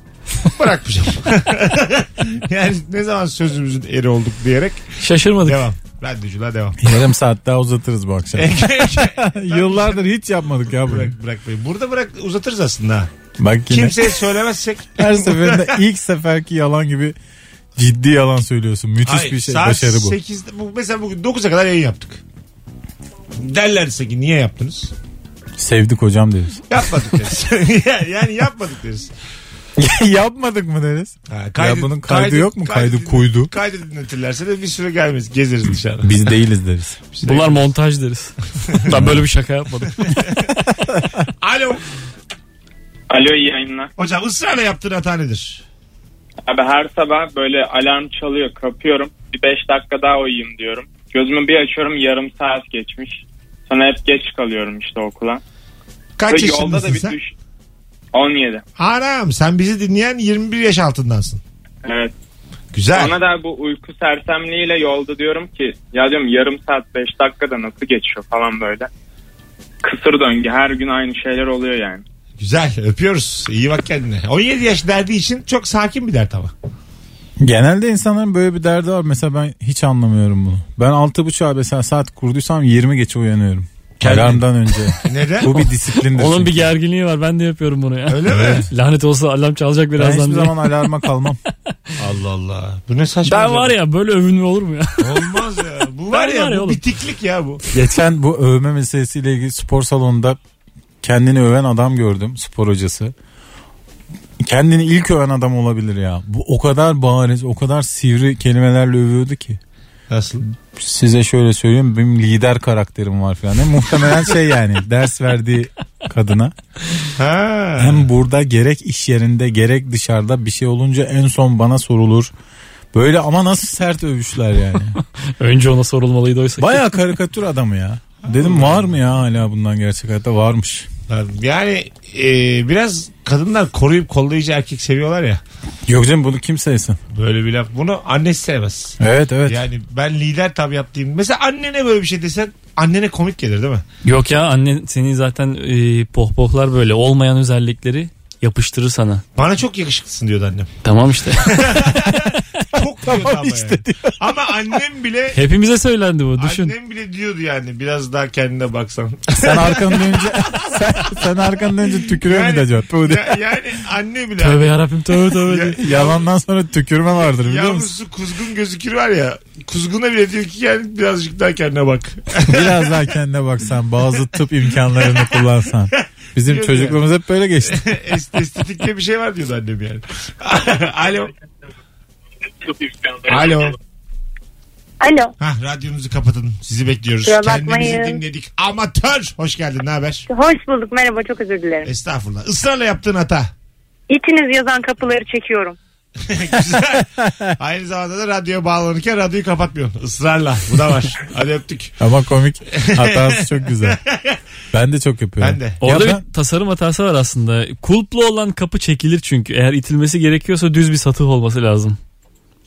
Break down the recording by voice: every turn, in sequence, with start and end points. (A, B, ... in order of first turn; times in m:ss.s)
0:00.4-0:04.8 A
0:05.0-0:05.7 B
0:05.4-0:06.8 A
0:06.8-0:11.1 C
0:08.4-0:10.0 A
0:10.8-0:13.1 A
0:13.4-0:14.2 C
0:13.7-0:15.8 A
0:15.0-0:17.2 C
0:17.8-0:20.2 C
0:19.0-0:22.2 A
0:23.3-0:24.9 A
0:25.6-0:26.6 C
0:26.7-0:29.1 A
0:29.8-0:33.5 C
0:31.3-0:36.4 A
0:36.0-0:37.0 C
0:37.1-0:37.6 A
0:37.2-0:40.5 B
0:40.0-0:40.5 A
0:41.4-0:41.8 A
0:43.1-0:43.9 D
0:44.0-0:45.6 A
0:46.4-0:55.4 D
0:56.2-0:57.2 A
0:56.3-0:57.3 D
0:58.1-0:58.6 D
0:58.8-1:01.4 A
1:01.8-1:02.1 D
1:02.7-1:03.2 A
1:02.9-1:08.9 D
1:09.8-1:12.0 D
1:12.4-1:16.5 A
1:17.4-1:26.7 C
1:24.0-1:24.4 A
1:25.0-1:25.6 A
1:25.4-1:30.9 B
1:28.1-1:28.7 A
1:30.0-1:31.4 C
1:32.0-1:33.7 A
1:33.2-1:36.8 B
1:35.0-1:37.6 A
1:37.7-1:40.4 C
1:41.0-1:43.1 C
1:44.4-1:49.6 C
1:50.1-1:50.4 A
1:50.7-1:56.5 C
1:57.2-1:58.1 A
1:57.8-2:02.3 C
2:02.9-2:05.0 C
2:05.4-2:06.9 B
2:06.6-2:10.9 C
2:08.2-2:09.0 A
2:11.1-2:15.4 A
2:15.9-2:17.0 C
2:17.1-2:23.8 A
2:19.0-2:19.6 C
2:24.0-2:29.2 B
2:29.3-2:30.7 A
2:30.8-2:31.8 B
2:31.4-2:35.4 A
2:33.0-2:34.4 C
2:35.3-2:36.7 B
2:36.4-2:41.2 A
2:39.4-2:43.4 C
2:42.1-2:44.7 A
2:44.4-2:45.8 B
2:45.4-2:46.2 A
2:45.8-2:47.9 C
2:47.2-2:53.0 A
2:52.4-2:57.9 C
2:55.0-2:55.4 A
2:55.9-2:57.0 A
2:57.6-3:01.3 A
3:03.2-3:03.7 A
3:05.0-3:05.3 E
3:05.4-3:10.3 A
3:07.2-3:08.2 E
3:10.3-3:11.9 E
3:11.8-3:13.5 A
3:14.1-3:15.8 E
3:16.2-3:21.9 A
3:17.2-3:17.5 C
3:22.0-3:24.0 C
3:22.7-3:24.4 A
3:24.7-3:26.2 C
3:25.4-3:25.8 A
3:25.8-3:32.0 B